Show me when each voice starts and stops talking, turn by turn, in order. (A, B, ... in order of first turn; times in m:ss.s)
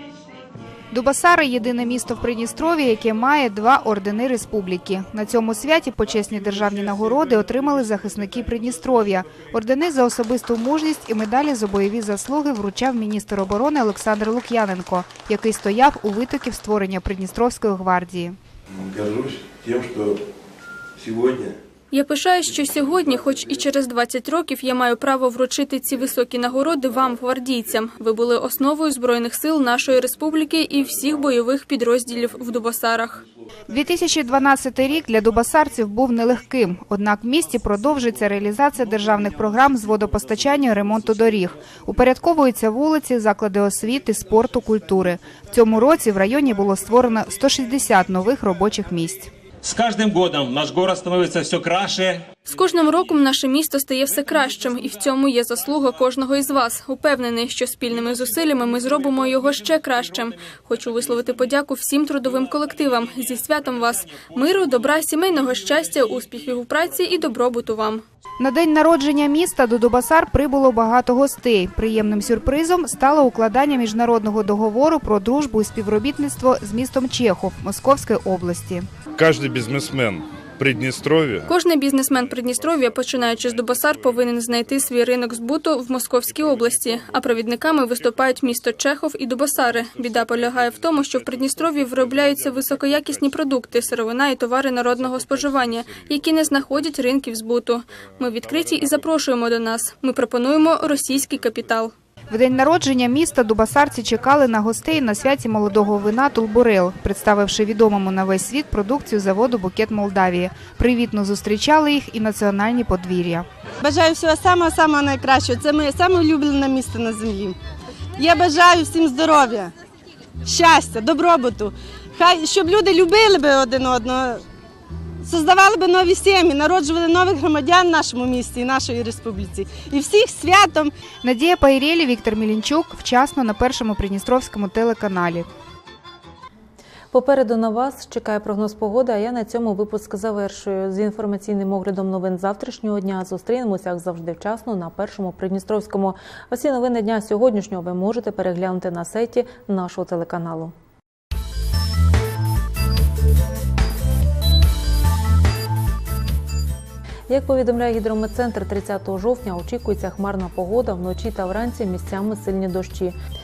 0:00.9-0:18.4 A
0:21.9-0:33.2 B
0:33.7-0:49.3 A
0:49.7-0:52.1 C
0:52.5-1:08.0 B
1:08.4-1:18.9 A
1:19.2-1:21.4 D
1:21.5-1:41.9 B
1:42.3-1:53.5 A
1:53.8-1:57.6 E
1:58.2-1:59.7 E
2:00.4-2:04.4 E
2:05.2-2:10.9 E
2:11.2-2:15.5 A
2:17.1-2:30.7 F
2:37.3-2:43.2 F